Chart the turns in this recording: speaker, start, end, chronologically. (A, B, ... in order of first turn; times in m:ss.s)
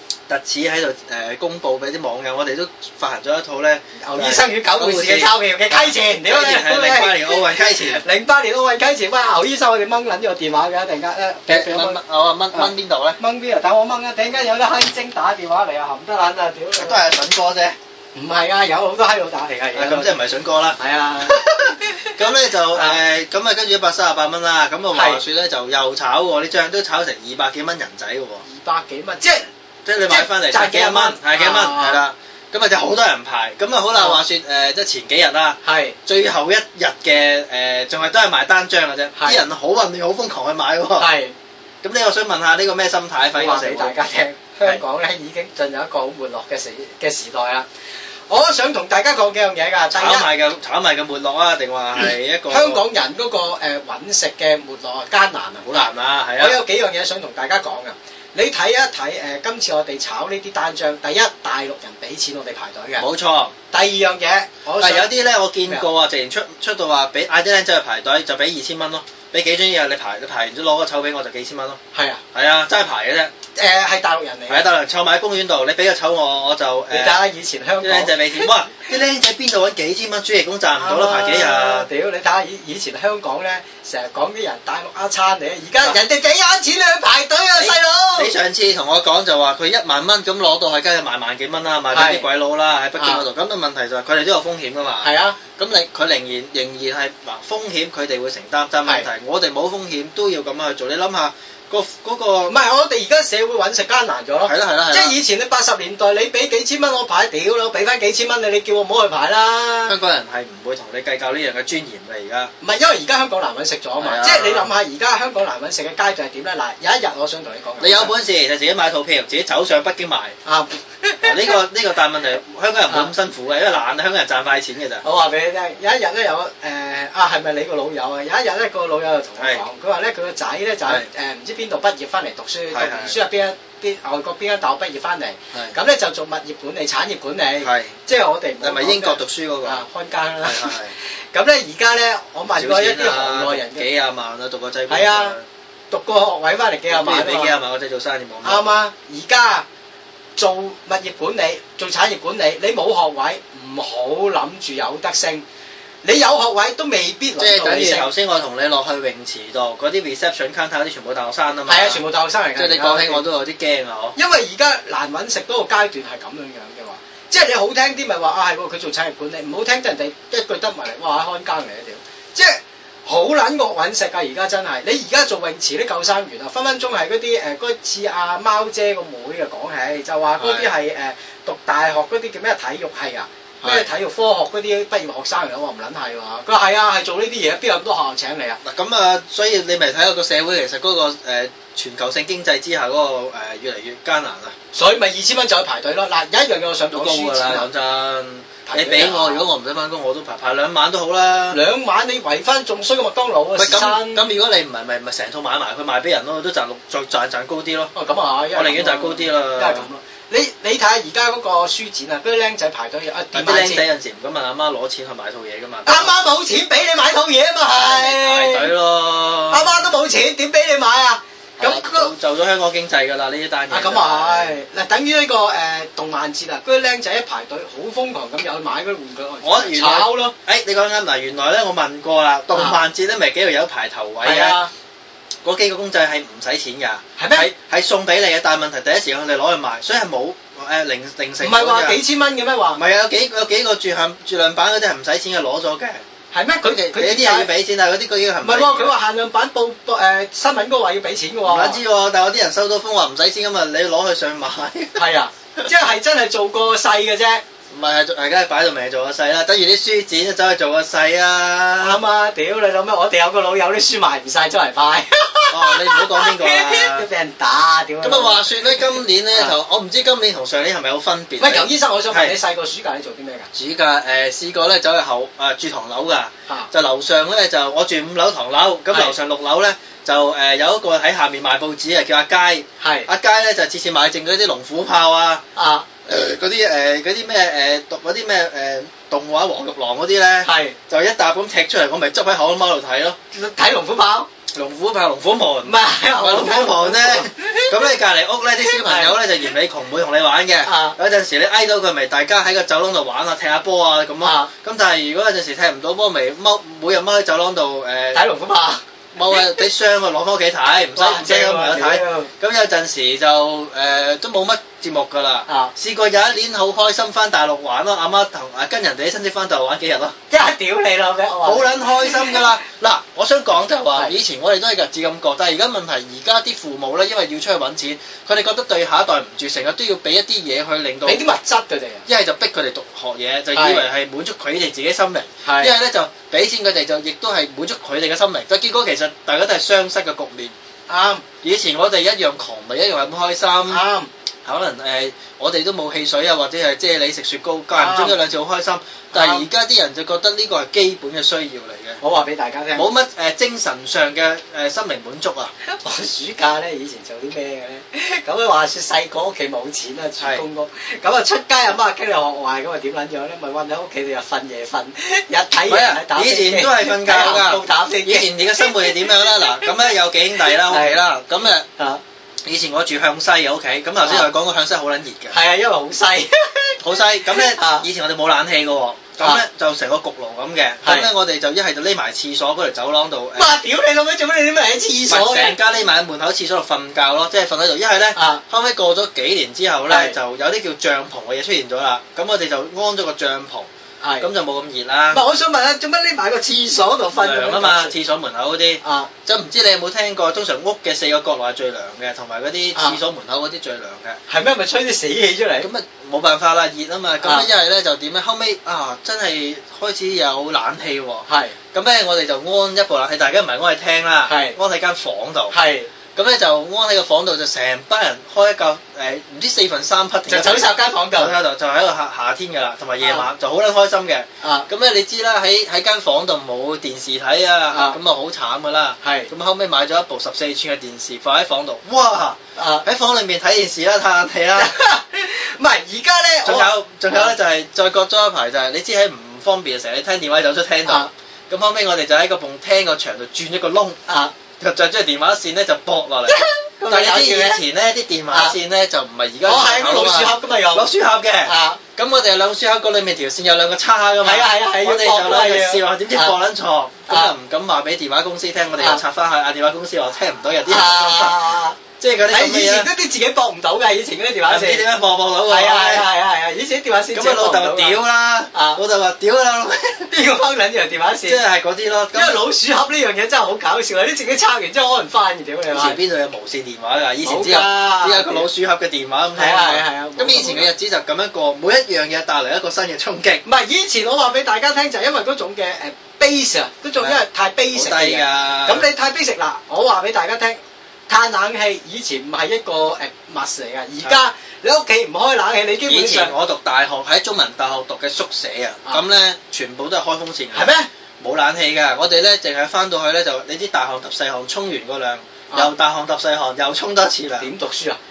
0:00.3-0:08.0 A
0:04.0-0:12.0 B
0:11.5-0:13.2 A
0:12.5-0:17.1 B
0:16.8-0:17.8 A
0:18.2-0:20.1 B
0:19.7-0:28.4 A
0:20.8-0:22.2 B
0:22.7-0:23.0 B
0:24.9-0:25.2 B
0:28.4-0:29.5 B
0:29.8-0:41.1 A
0:30.1-0:32.0 B
0:33.9-0:34.2 B
0:35.6-0:36.0 B
0:39.2-0:39.4 B
0:41.0-0:41.3 B
0:41.8-0:43.9 A
0:43.3-0:47.7 B
0:48.3-0:50.3 B
0:49.9-0:52.8 A
0:52.5-0:55.8 B
0:55.7-0:56.6 A
0:56.4-1:03.0 B
1:03.0-1:03.5 A
1:03.7-1:05.1 B
1:04.8-1:11.8 A
1:11.9-1:12.2 B
1:12.3-1:13.3 A
1:13.5-1:14.7 B
1:14.5-1:17.2 A
1:16.9-1:18.5 B
1:17.8-1:21.9 A
1:20.8-1:28.3 B
1:27.6-1:42.6 A
1:31.9-1:32.3 B
1:33.0-1:33.2 B
1:35.0-1:35.4 B
1:42.5-1:50.0 B
1:44.4-1:45.2 A
1:49.9-1:52.5 A
1:52.6-1:58.1 B
1:54.0-1:54.7 A
1:57.8-2:00.4 A
2:00.4-2:01.6 B
2:01.2-2:05.0 A
2:05.0-2:23.8 B
2:12.7-2:13.2 A
2:17.6-2:18.0 A
2:18.6-2:19.8 A
2:20.4-2:20.9 A
2:22.5-2:25.4 A
2:24.9-2:25.3 B
2:25.9-2:27.6 B
2:26.9-2:28.7 A
2:28.4-2:29.7 B
2:30.4-2:35.4 B
2:36.0-2:38.1 B
2:37.4-2:42.0 A
2:41.7-2:43.2 B
2:42.6-2:44.2 A
2:44.2-3:08.6 B
3:00.4-3:00.7 A
3:03.6-3:03.9 A
3:08.6-3:14.5 A
3:14.7-3:17.7 B
3:16.9-3:21.6 A
3:18.7-3:19.5 B
3:21.5-3:24.3 B
3:23.6-3:27.9 A
3:28.0-3:33.8 B
3:28.5-3:29.9 A
3:33.3-3:36.2 A
3:35.8-3:38.7 B
3:37.7-3:39.9 A
3:39.5-3:42.1 B
3:41.6-3:44.6 A
3:43.7-3:50.3 B
3:49.4-3:54.6 A
3:52.5-3:52.8 B
3:54.2-3:54.7 B
3:55.4-4:02.0 A
3:57.2-3:57.5 B
4:01.4-4:02.8 B
4:02.7-4:06.0 A
4:06.3-4:07.5 B
4:06.7-4:08.9 A
4:08.4-4:11.8 B
4:11.4-4:15.7 A
4:15.0-4:17.4 B
4:17.7-4:22.0 A
4:21.8-4:29.5 B
4:25.5-4:27.0 A
4:28.0-4:32.4 A
4:31.4-4:33.5 B
4:33.5-4:45.4 A
4:38.9-4:39.2 B
4:42.8-4:43.1 B
4:45.6-4:45.9 B
4:46.0-4:53.2 A
4:50.4-4:50.8 B
4:53.3-4:54.3 B
4:54.5-5:08.2 A
4:55.6-4:57.9 B
4:58.6-4:59.2 B
5:00.6-5:01.0 B
5:04.2-5:04.5 B
5:08.1-5:08.8 B
5:09.1-5:20.1 A
5:11.0-5:12.3 B
5:15.5-5:15.7 B
5:20.3-5:22.4 B
5:21.4-5:31.2 A
5:31.0-5:32.0 B
5:32.1-5:40.5 A
5:33.5-5:33.9 B
5:35.4-5:35.8 B
5:40.9-5:41.2 B
5:41.4-5:43.8 A
5:43.7-5:44.1 B
5:44.4-5:52.0 A
5:47.8-5:48.2 B
5:49.1-5:49.5 B
5:52.0-5:52.9 B
5:52.8-5:55.5 A
5:55.6-6:09.8 B
6:05.7-6:11.7 A
6:10.5-6:11.0 B
6:12.4-6:15.4 A
6:14.0-6:14.3 B
6:15.3-6:17.8 B
6:16.8-6:23.6 A
6:20.8-6:21.1 B
6:23.4-6:25.6 B
6:25.1-6:33.7 A
6:28.1-6:28.4 B
6:29.9-6:30.2 B
6:34.0-6:34.3 B
6:34.2-6:35.2 A
6:35.1-6:37.9 B
6:37.2-6:44.2 A
6:38.8-6:39.1 B
6:44.3-6:45.7 B
6:45.6-6:55.6 A
6:51.3-6:51.6 B
6:54.2-6:54.6 B
6:55.5-6:55.9 B
6:56.1-7:14.7 A
7:00.3-7:01.4 B
7:04.4-7:04.7 B
7:07.7-7:08.0 B
7:09.0-7:09.3 B
7:12.6-7:12.8 B
7:14.6-7:17.3 B
7:16.5-7:24.0 A
7:24.1-7:24.3 B
7:24.6-7:42.9 A
7:26.3-7:27.6 B
7:29.4-7:30.9 B
7:31.4-7:31.8 B
7:34.2-7:36.4 B
7:40.7-7:41.8 B
7:42.3-7:44.8 B
7:44.5-7:46.1 A
7:45.5-7:48.0 B
7:47.1-7:50.1 A
7:48.5-7:48.8 B
7:50.1-7:51.4 B
7:51.2-7:52.4 A
7:52.1-7:56.0 B
7:55.7-8:03.4 A
7:57.2-7:58.4 B
7:59.4-8:00.7 B
8:03.4-8:16.3 B
8:07.7-8:08.9 A
8:15.9-8:27.5 A
8:20.5-8:20.9 B
8:27.4-8:28.0 B